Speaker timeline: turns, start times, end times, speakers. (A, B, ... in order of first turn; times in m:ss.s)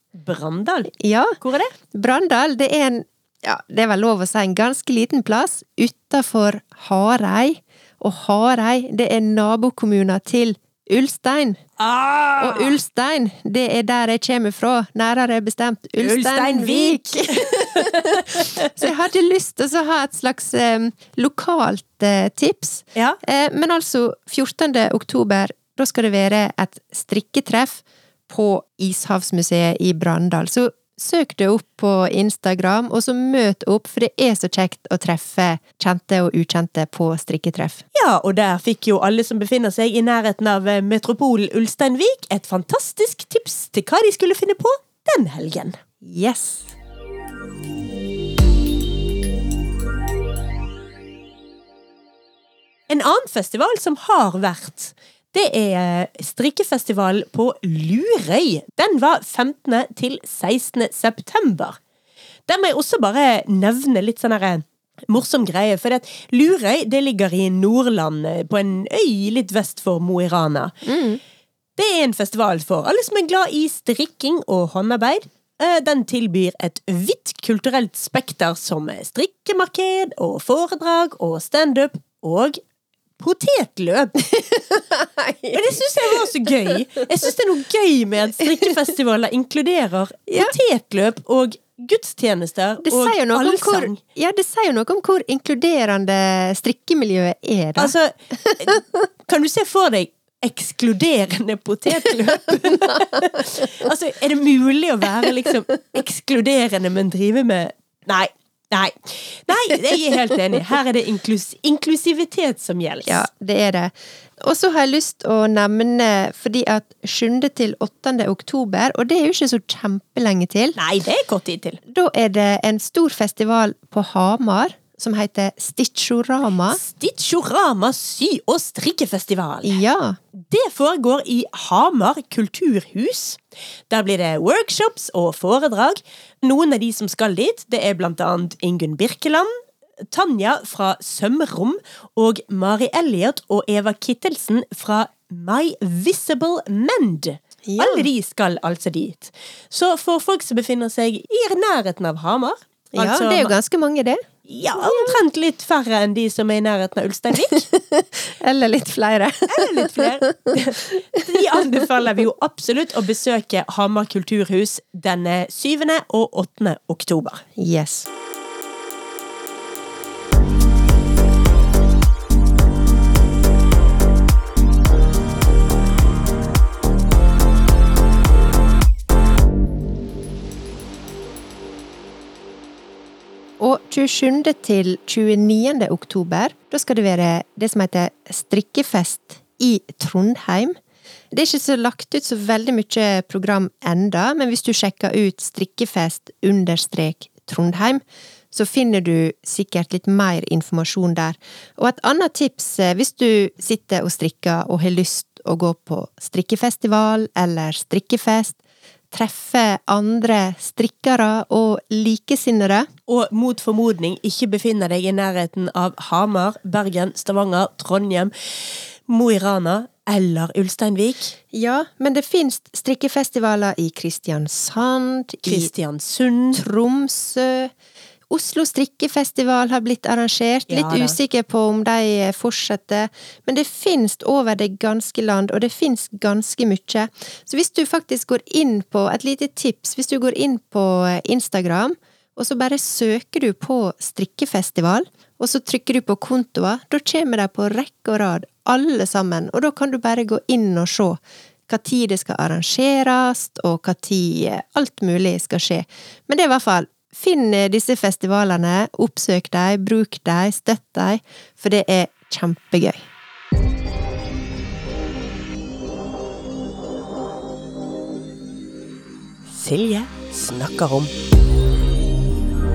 0:00.1-0:01.7 A
0:00.9-0:01.4 B
0:01.9-0:11.6 B
0:11.8-0:12.8 A
0:12.4-0:37.8 B
0:16.0-0:18.9 A
0:37.9-0:45.8 A
0:46.0-0:46.7 B
0:52.9-1:01.8 A
1:02.5-1:10.8 A
1:10.8-1:11.2 B
1:11.8-1:22.6 A
1:23.2-1:24.3 A
1:24.3-1:26.3 B
1:25.5-1:34.0 A
1:30.3-1:30.5 B
1:32.8-1:38.8 B
1:37.8-1:53.2 A
1:42.9-1:43.3 B
1:53.0-2:00.8 B
2:00.8-2:01.8 A
2:01.9-2:06.8 B
2:06.7-2:09.8 A
2:09.6-2:10.2 B
2:10.3-2:19.5 A
2:20.1-2:33.5 A
2:27.6-2:28.1 B
2:32.9-2:34.2 B
2:34.4-2:37.7 A
2:34.7-2:35.2 B
2:37.3-2:41.7 B
2:39.5-2:47.4 A
2:47.6-2:48.1 B
3:03.6-3:10.8 B
3:11.3-3:28.6 B
3:29.1-3:32.9 B
3:33.1-3:41.3 A
3:41.5-3:45.7 B
3:45.4-3:46.6 A
3:46.5-3:47.7 B
3:48.3-4:23.0 B
3:50.7-3:51.2 A
4:29.5-4:31.1 A